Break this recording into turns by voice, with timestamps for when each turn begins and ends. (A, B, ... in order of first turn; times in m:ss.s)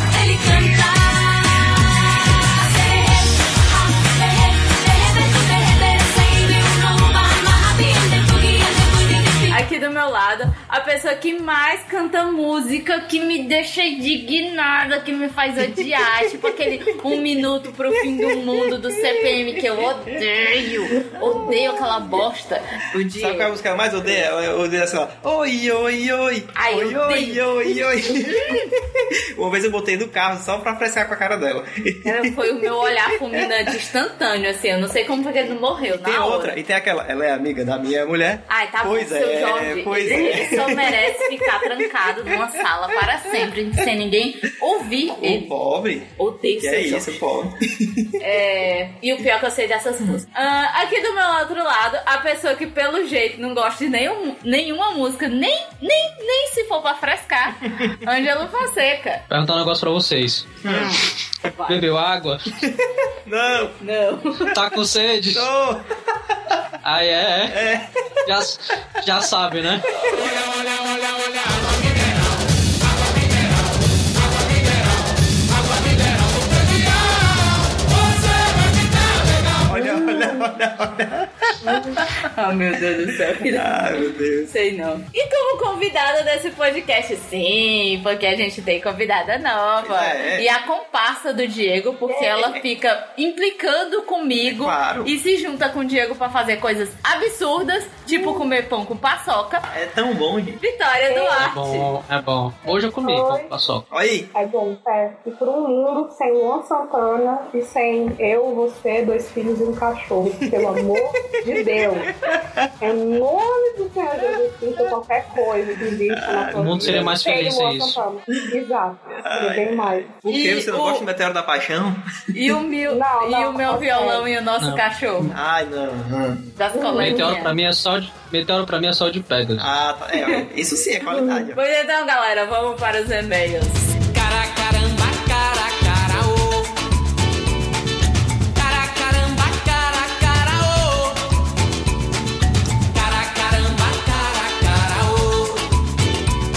0:00.1-0:09.6 A
0:09.5-0:24.2 B
0:16.0-0:16.5 C
0:18.1-0:20.5 C
0:21.0-0:21.8 C
0:21.2-0:21.5 D
0:23.1-0:33.5 C
0:26.5-0:28.6 B
0:32.0-0:36.6 B
0:35.9-0:41.9 C
0:38.5-0:45.5 B
0:42.6-0:43.5 C
0:45.1-0:48.2 C
0:46.2-0:47.2 B
0:48.2-0:59.2 B
0:59.3-1:00.5 E
1:00.6-1:01.0 C
1:00.6-1:01.9 B
1:01.7-1:02.5 E
1:02.6-1:03.8 C
1:03.8-1:04.6 B
1:04.5-1:05.5 E
1:05.3-1:05.9 C
1:06.8-1:07.6 E
1:07.5-1:07.9 C
1:08.2-1:09.9 E
1:10.0-1:10.3 C
1:19.6-1:22.0 C
1:19.8-1:20.3 D
1:21.7-1:22.0 D
1:22.2-1:39.7 B
1:23.4-1:24.5 C
1:29.8-1:30.5 C
1:32.1-1:32.5 D
1:34.4-1:35.1 C
1:38.1-1:38.4 D
1:39.7-1:40.6 C
1:40.6-1:41.9 B
1:41.1-1:41.5 D
1:41.5-1:43.8 E
1:43.0-1:43.5 D
1:43.9-1:44.3 C
1:44.3-1:52.1 D
1:50.4-1:52.9 C
1:52.8-2:00.1 D
1:54.2-1:54.4 C
1:55.5-1:57.2 C
1:56.6-1:58.0 E
1:59.2-2:02.0 C
2:00.3-2:01.1 B
2:02.3-2:05.3 B
2:02.8-2:04.2 D
2:05.3-2:06.6 C
2:06.6-2:07.6 B
2:06.7-2:07.3 D
2:07.0-2:09.7 E
2:09.6-2:11.6 C
2:11.2-2:14.0 B
2:14.1-2:16.7 F
2:14.7-2:15.2 A
2:18.6-2:21.0 A
2:18.6-2:21.1 F
2:22.9-2:25.6 F